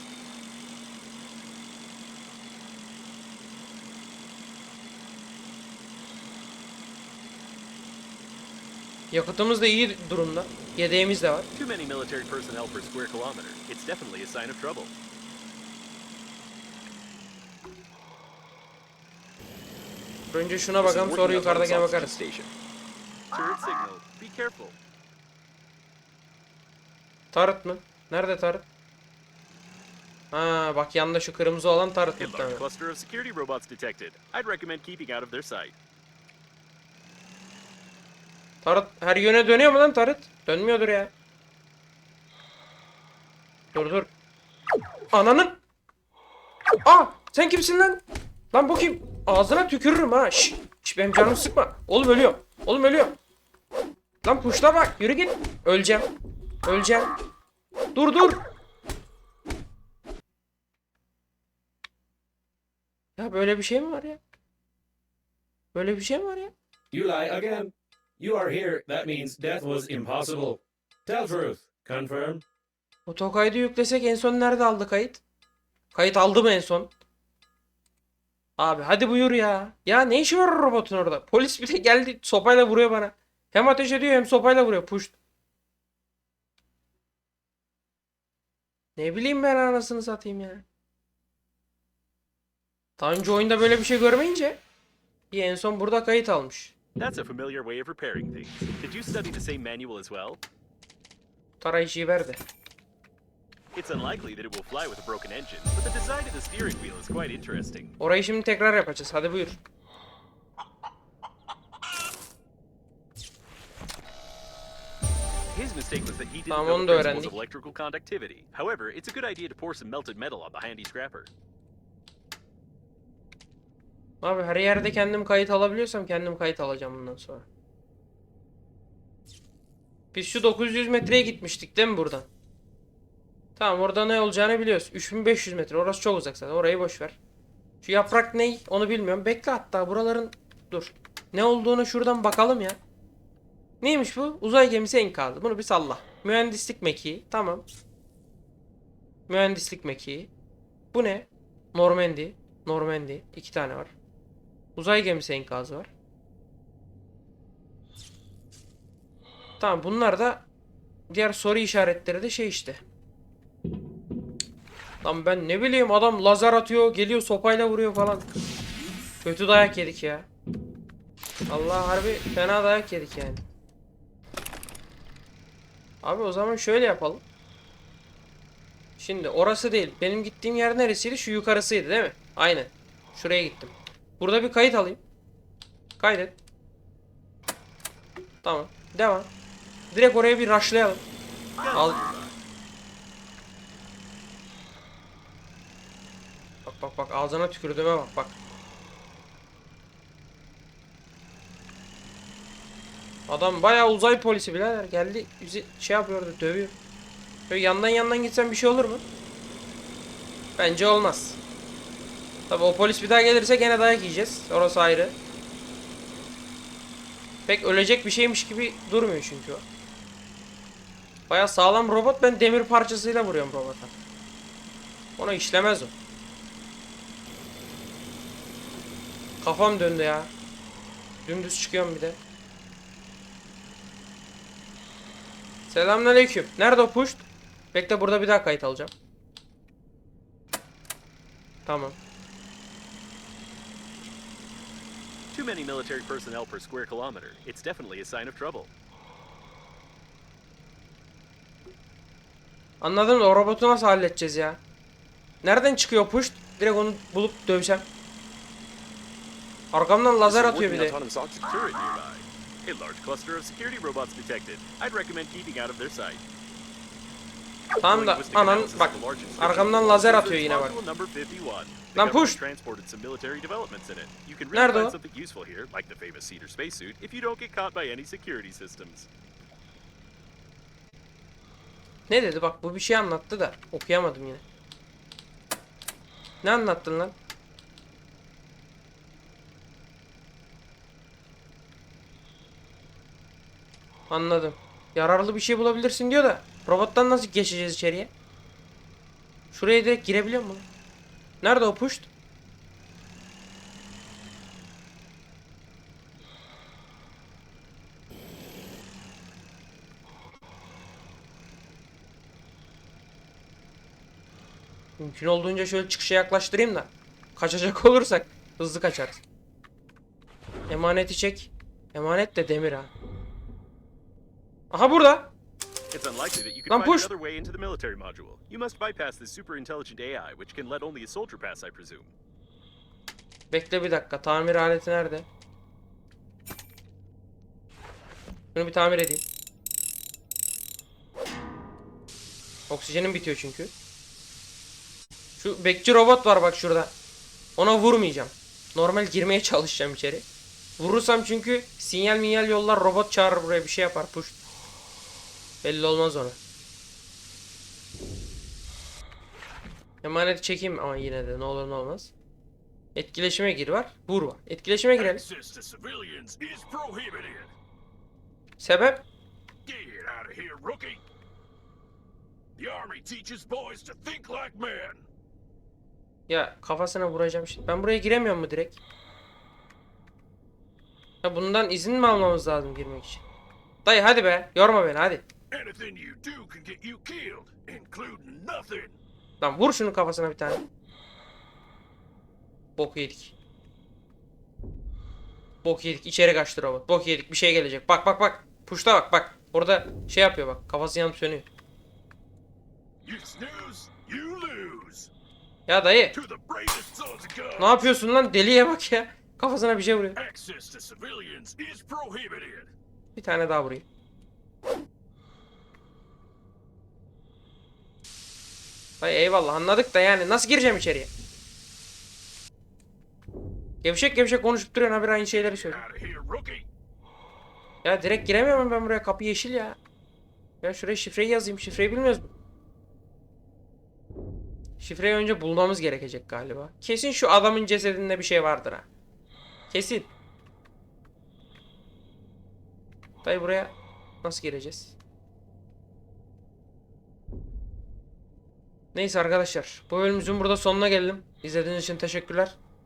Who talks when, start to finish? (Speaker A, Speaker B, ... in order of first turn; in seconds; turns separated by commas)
Speaker A: 9.1-11.5, Speaker B: 11.5-14.9, Speaker A: 20.3-22.1, Speaker B: 20.8-22.5, Speaker B: 23.3-24.8, Speaker A: 27.3-28.6, Speaker A: 30.3-32.6, Speaker B: 32.2-35.8, Speaker A: 38.6-41.1, Speaker A: 43.7-44.1, Speaker A: 45.1-45.6, Speaker A: 46.8-53.1, Speaker A: 54.2-56.1, Speaker A: 56.6-57.1, Speaker A: 57.9-58.4, Speaker A: 63.2-64.2, Speaker A: 65.7-66.5, Speaker C: 66.9-72.4, Speaker A: 73.0-75.2, Speaker A: 75.9-76.9, Speaker A: 78.6-85.1, Speaker A: 89.0-90.6, Speaker A: 93.0-94.6, Speaker A: 95.3-96.7, Speaker B: 97.0-100.4, Speaker A: 101.6-102.4, Speaker B: 103.7-107.9, Speaker A: 108.0-109.6, Speaker B: 115.5-121.3, Speaker A: 116.5-117.4, Speaker A: 124.2-127.5, Speaker A: 130.1-132.3, Speaker A: 133.6-137.2, Speaker A: 137.8-142.8, Speaker A: 143.8-147.6, Speaker A: 149.3-150.3, Speaker A: 150.9-153.9, Speaker A: 154.8-155.9, Speaker A: 159.6-160.4, Speaker A: 161.1-162.8, Speaker A: 165.0-168.2, Speaker A: 169.2-170.3, Speaker A: 171.5-173.4, Speaker A: 176.0-177.2, Speaker A: 179.0-185.0, Speaker A: 186.0-186.3, Speaker A: 188.4-189.3, Speaker A: 189.9-191.0, Speaker B: 191.6-192.3, Speaker A: 191.7-192.0, Speaker A: 196.6-198.4, Speaker A: 203.3-206.7, Speaker A: 207.5-209.0, Speaker A: 210.6-211.4, Speaker A: 212.5-215.2, Speaker A: 217.5-219.6, Speaker A: 221.3-223.9, Speaker A: 225.2-225.9, Speaker A: 229.4-230.3, Speaker A: 231.2-232.2, Speaker A: 235.7-238.9, Speaker A: 241.7-241.9, Speaker B: 245.3-248.7, Speaker A: 252.8-254.6, Speaker A: 255.4-257.9, Speaker A: 259.7-261.0, Speaker C: 260.2-261.5, Speaker B: 261.4-266.2, Speaker A: 267.8-270.8, Speaker B: 267.8-279.1, Speaker A: 271.9-272.4, Speaker A: 274.5-274.9, Speaker A: 282.1-284.4, Speaker A: 286.4-287.1, Speaker A: 294.1-298.1, Speaker A: 299.5-300.6, Speaker A: 301.4-302.1, Speaker A: 315.0-319.2, Speaker A: 320.7-322.9, Speaker A: 324.7-325.3, Speaker B: 325.9-332.1, Speaker A: 326.7-327.1, Speaker A: 333.5-335.3, Speaker A: 338.5-339.2, Speaker A: 342.7-343.7, Speaker A: 345.4-346.9, Speaker A: 347.6-350.2, Speaker A: 350.8-354.4, Speaker A: 355.6-356.4, Speaker A: 360.0-362.1, Speaker A: 362.9-365.2, Speaker D: 365.0-367.5, Speaker A: 368.6-369.0, Speaker D: 369.6-371.0, Speaker D: 372.6-375.1, Speaker A: 376.3-378.8, Speaker A: 381.2-383.2, Speaker A: 383.8-385.2, Speaker D: 385.5-389.0, Speaker A: 389.4-390.6, Speaker A: 392.8-393.3, Speaker A: 395.6-401.5, Speaker D: 403.0-405.1, Speaker A: 405.7-406.1, Speaker D: 406.1-407.9, Speaker A: 407.6-410.2, Speaker D: 410.1-412.7, Speaker A: 413.1-413.9, Speaker A: 419.0-421.1, Speaker A: 423.8-425.8, Speaker D: 425.3-426.6, Speaker A: 427.8-429.8, Speaker A: 430.6-432.3, Speaker A: 434.8-438.9, Speaker A: 439.7-440.1, Speaker A: 443.2-444.9, Speaker A: 448.9-452.6